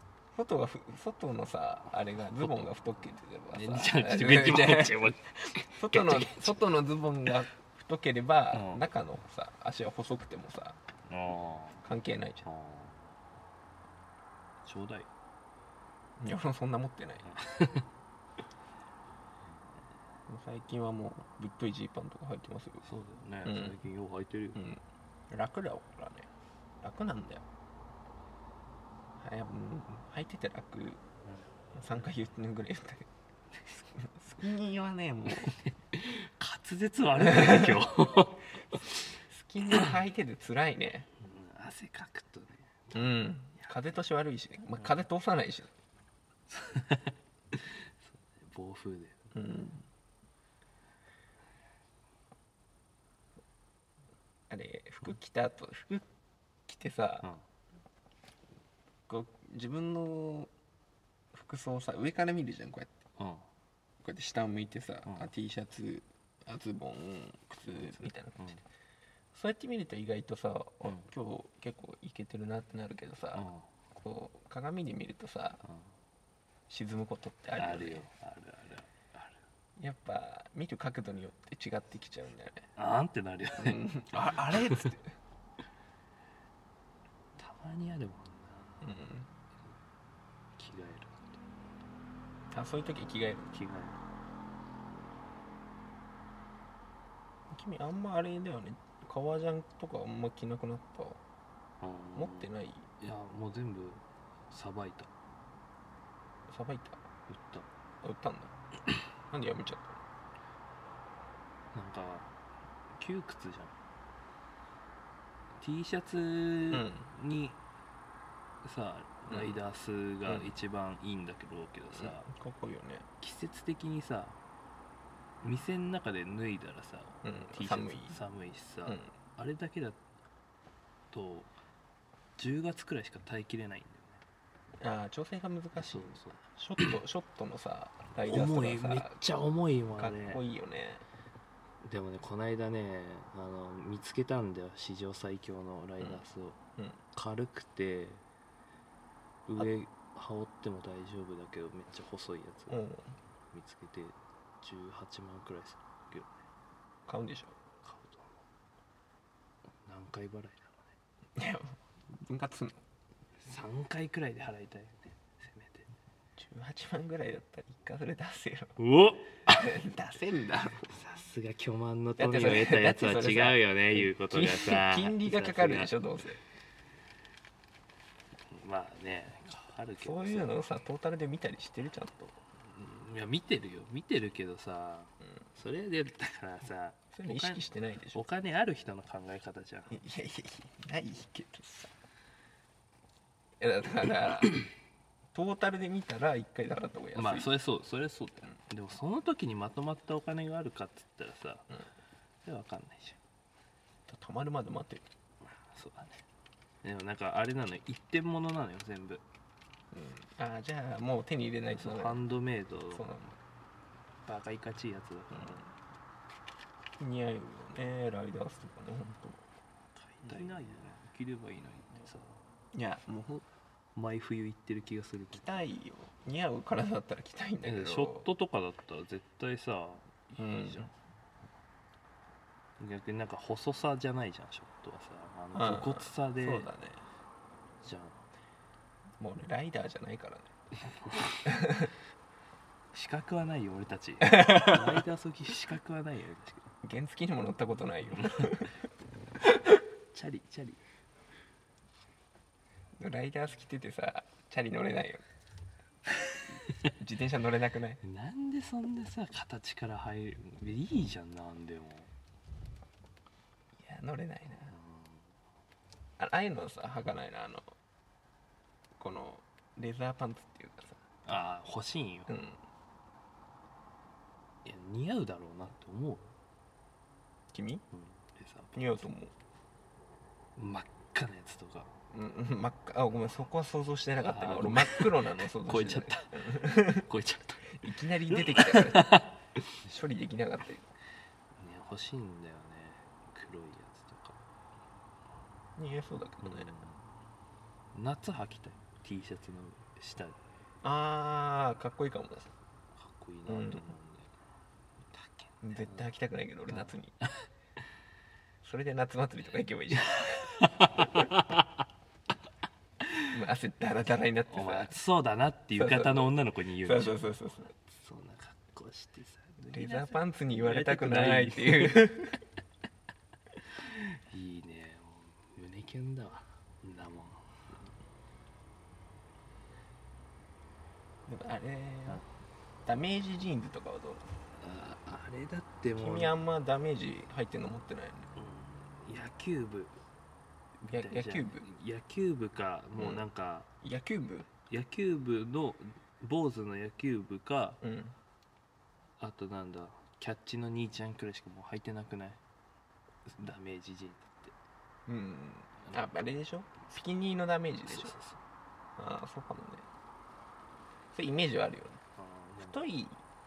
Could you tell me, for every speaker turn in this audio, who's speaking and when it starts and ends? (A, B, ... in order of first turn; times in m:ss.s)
0:00.3-0:10.8 A
0:02.4-0:02.7 B
0:03.5-0:06.7 B
0:08.5-0:08.8 B
0:11.1-0:11.8 B
0:11.8-0:12.4 A
0:12.4-0:13.1 B
0:14.6-0:15.1 B
0:16.2-0:17.3 A
0:17.2-0:17.9 B
0:20.3-0:22.8 A
0:22.8-0:24.7 B
0:23.4-0:23.8 A
0:24.6-0:26.3 A
0:26.8-0:27.4 A
0:29.2-0:31.0 A
0:31.7-0:33.1 A
0:33.7-0:35.6 A
0:35.4-0:39.1 B
0:37.2-0:37.8 A
0:39.3-0:41.1 A
0:41.2-0:43.8 B
0:42.9-0:45.7 A
0:46.5-0:49.3 B
0:49.3-0:49.8 A
0:54.5-0:56.0 A
0:56.7-0:57.3 A
0:59.1-1:00.5 A
1:01.3-1:03.0 A
1:03.2-1:03.5 B
1:04.0-1:08.6 A
1:09.3-1:15.6 A
1:10.8-1:11.1 B
1:13.3-1:13.7 B
1:15.6-1:15.9 B
1:16.7-1:18.1 A
1:17.6-1:19.4 B
1:19.8-1:22.7 A
1:22.8-1:24.9 B
1:23.6-1:25.2 A
1:27.4-1:29.0 B
1:28.8-1:29.3 A
1:30.6-1:31.4 B
1:32.5-1:33.5 A
1:33.5-1:34.0 B
1:37.5-1:41.2 A
1:41.8-1:45.1 B
1:42.2-1:42.9 A
1:46.5-1:47.0 A
1:47.3-1:47.7 B
1:48.0-1:48.5 A
1:49.3-1:50.0 A
1:51.7-1:52.3 B
1:53.0-1:53.8 B
1:55.6-1:57.6 B
1:56.7-1:57.0 A
1:58.6-2:02.3 B
1:59.3-1:59.6 A
2:01.9-2:03.0 A
2:03.2-2:04.4 B
2:05.4-2:10.0 B
2:07.2-2:08.2 A
2:11.1-2:11.5 B
2:12.4-2:14.2 B
2:14.8-2:19.2 A
2:15.7-2:16.9 B
2:18.2-2:20.4 B
2:20.0-2:21.0 A
2:21.8-2:26.6 B
2:27.1-2:28.2 B
2:29.5-2:32.8 B
2:32.7-2:33.1 A
2:33.5-2:36.4 B
2:37.1-2:37.6 A
2:37.8-2:38.4 B
2:39.8-2:40.9 B
2:41.4-2:42.8 A
2:43.4-2:45.9 B
2:46.4-2:48.8 A
2:48.8-2:49.7 B
2:49.5-2:50.9 A
2:50.9-2:56.0 B
2:52.2-2:56.4 A
2:58.5-3:00.6 B
3:00.0-3:02.4 A
3:02.6-3:10.0 B
3:07.1-3:08.2 A
3:09.9-3:11.9 A
3:13.6-3:14.6 A
3:15.3-3:17.5 A
3:17.1-3:21.8 B
3:22.4-3:23.2 B
3:24.1-3:25.1 A
3:25.5-3:26.2 B
3:26.8-3:29.2 B
3:29.9-3:32.2 A
3:31.7-3:33.1 B
3:32.9-3:33.4 A
3:34.2-3:35.7 B
3:35.3-3:35.6 A
3:37.0-3:39.4 A
3:40.0-3:42.4 B
3:40.2-3:40.8 A
3:42.7-3:43.5 A
3:44.0-3:45.5 B
3:45.3-3:48.3 A
3:47.6-3:50.9 B
3:50.4-3:50.9 A
3:52.8-3:56.7 B
3:55.5-3:57.0 A
3:57.8-3:58.2 B
3:59.2-4:00.5 A
4:00.8-4:01.6 B
4:01.4-4:01.9 A
4:02.9-4:06.7 B
4:04.3-4:05.0 A
4:06.8-4:08.8 A
4:08.0-4:08.6 B
4:10.1-4:10.8 B
4:13.0-4:15.2 A
4:16.8-4:18.0 A
4:18.0-4:22.1 B
4:23.8-4:24.7 A
4:24.7-4:25.3 B
4:26.2-4:27.7 A
4:29.0-4:31.0 A
4:31.3-4:32.3 B
4:32.3-4:32.6 A
4:34.6-4:36.3 B
4:37.5-4:37.8 A
4:37.9-4:39.0 B
4:38.8-4:39.3 A
4:40.6-4:41.9 B
4:42.1-4:47.1 A
4:44.2-4:49.7 B
4:47.8-4:49.2 A
4:49.8-4:50.9 A
4:51.6-4:54.4 B
4:55.8-4:56.7 A
4:56.4-4:57.0 B
4:57.9-5:00.4 B
5:00.8-5:02.5 A
5:02.9-5:04.3 B
5:03.5-5:03.9 A
5:05.0-5:06.1 B
5:05.6-5:07.1 A
5:06.7-5:07.5 B
5:08.6-5:11.3 A
5:10.5-5:11.8 B
5:13.3-5:14.9 A
5:14.5-5:22.2 B
5:15.8-5:17.7 A
5:19.7-5:22.4 A
5:23.6-5:27.9 B
5:31.3-5:32.2 A
5:32.9-5:34.3 A
5:34.6-5:36.4 B
5:36.0-5:38.3 A
5:38.4-5:40.0 B
5:40.8-5:43.7 B
5:40.9-5:41.7 A
5:43.0-5:43.2 A
5:43.8-5:44.5 A
5:44.7-5:47.8 B
5:47.8-5:48.2 A
5:49.2-5:52.4 B
5:53.3-5:54.5 B
5:55.1-5:58.2 A
5:57.9-5:58.4 B
5:59.0-5:59.9 A
6:01.1-6:02.0 A
6:02.2-6:02.8 B
6:02.6-6:03.2 A